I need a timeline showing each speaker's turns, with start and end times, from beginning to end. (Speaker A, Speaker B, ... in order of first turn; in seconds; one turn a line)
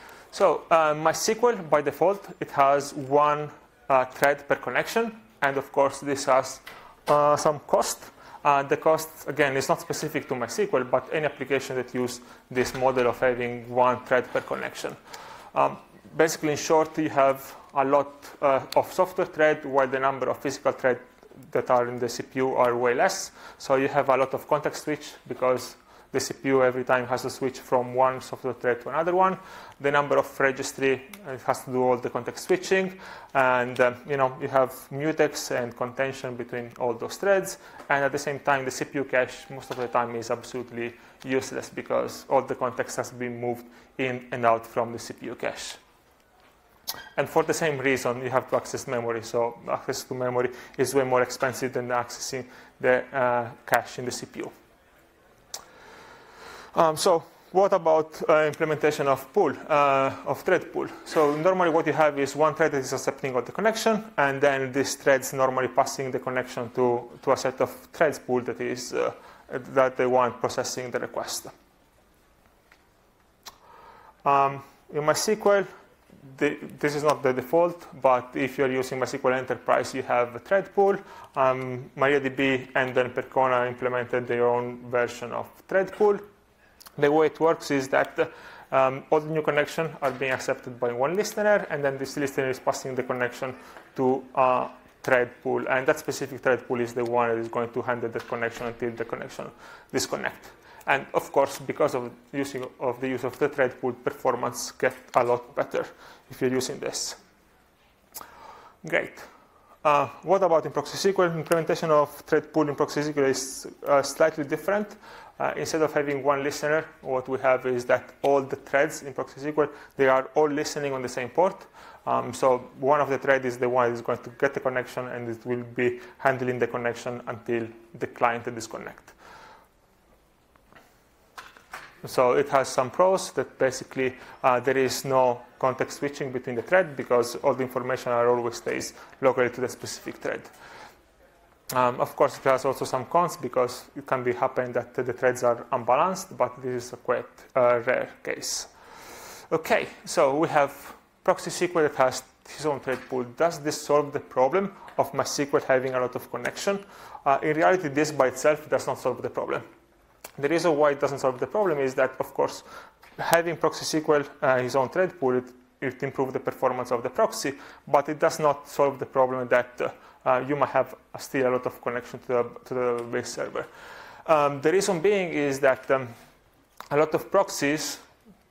Speaker A: 0.3-15.0
Speaker A: 15.5-45.8
Speaker A: 47.2-54.5
Speaker A: 56.7-71.5
Speaker A: 74.2-75.7
Speaker A: 76.2-86.2
Speaker A: 87.0-107.2
Speaker A: 108.8-109.3
Speaker A: 109.8-129.2
Speaker A: 132.0-140.5
Speaker A: 141.7-159.7
Speaker A: 160.4-173.7
Speaker A: 174.2-176.1
Speaker A: 176.9-178.0